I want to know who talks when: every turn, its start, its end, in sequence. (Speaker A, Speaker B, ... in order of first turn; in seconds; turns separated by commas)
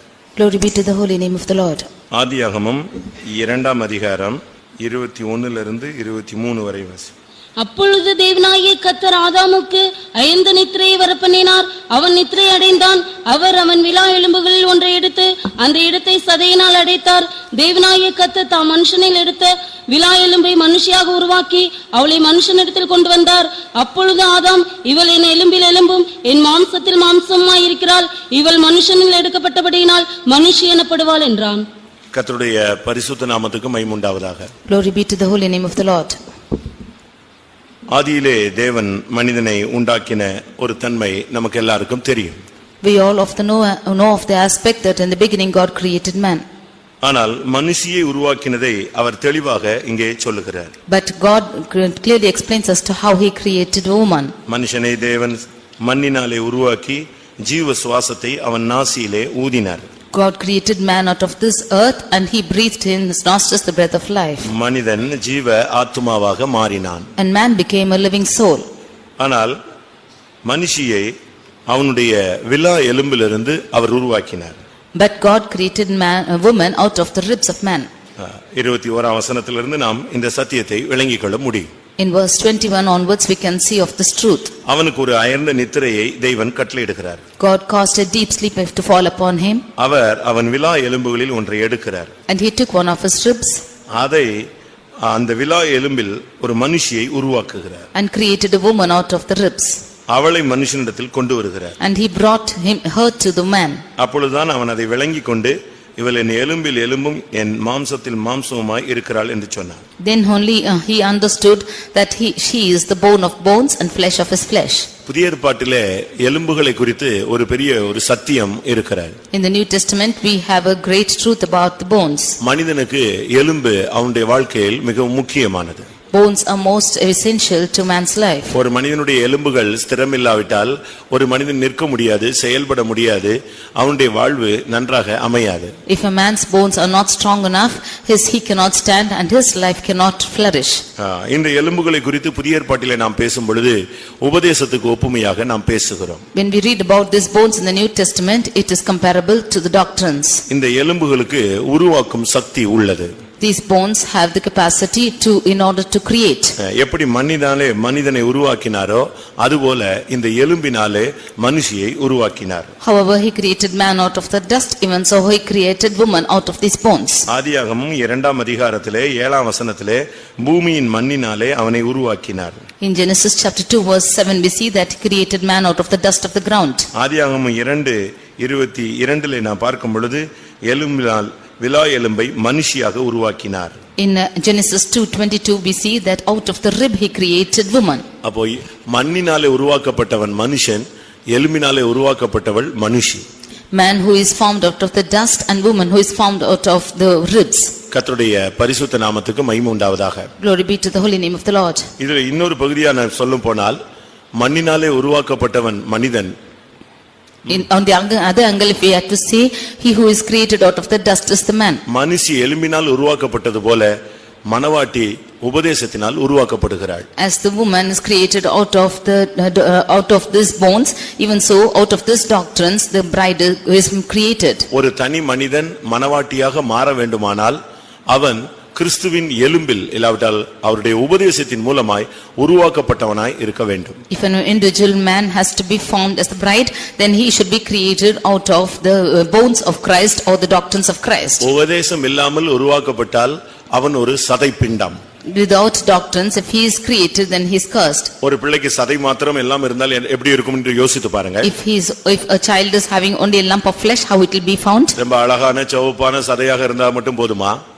Speaker A: 0.4-1.9, Speaker B: 2.1-7.1, Speaker C: 7.6-31.6, Speaker B: 32.1-34.5, Speaker A: 34.7-36.2, Speaker B: 37.9-42.4, Speaker A: 42.8-46.4, Speaker B: 47.0-50.7, Speaker A: 50.9-54.3, Speaker B: 54.5-59.9, Speaker A: 60.1-64.5, Speaker B: 64.5-67.1, Speaker A: 67.2-68.7, Speaker B: 69.2-69.6, Speaker B: 70.5-71.1, Speaker B: 71.7-74.6, Speaker A: 75.0-77.9, Speaker B: 78.2-81.7, Speaker A: 82.0-84.5, Speaker B: 84.7-87.2, Speaker A: 87.4-89.6, Speaker B: 89.8-92.1, Speaker A: 92.3-93.6, Speaker B: 94.0-94.5, Speaker B: 95.0-97.9, Speaker A: 97.9-99.8, Speaker B: 100.1-101.8, Speaker A: 101.8-103.8, Speaker B: 104.0-109.8, Speaker A: 110.0-114.9, Speaker B: 115.1-119.2, Speaker A: 119.3-122.4, Speaker B: 122.4-125.9, Speaker A: 126.1-128.6, Speaker B: 128.5-135.7, Speaker A: 135.9-140.8, Speaker B: 141.0-146.2, Speaker A: 146.3-150.4, Speaker B: 150.5-153.1, Speaker A: 153.4-156.6, Speaker B: 156.6-162.7, Speaker A: 162.8-167.3, Speaker B: 167.3-172.6, Speaker A: 172.8-176.9, Speaker B: 176.9-183.8, Speaker A: 184.0-188.1, Speaker B: 188.2-193.2, Speaker A: 193.7-197.8, Speaker B: 197.9-200.3, Speaker A: 200.4-201.9, Speaker B: 202.0-203.8, Speaker B: 204.4-206.3, Speaker A: 207.5-211.8, Speaker B: 211.9-213.9, Speaker B: 214.5-217.1, Speaker A: 217.2-224.7, Speaker B: 224.7-234.0, Speaker A: 234.1-241.4, Speaker B: 241.4-245.0, Speaker A: 245.3-248.1, Speaker B: 248.2-251.5, Speaker A: 251.4-255.0, Speaker B: 255.0-257.6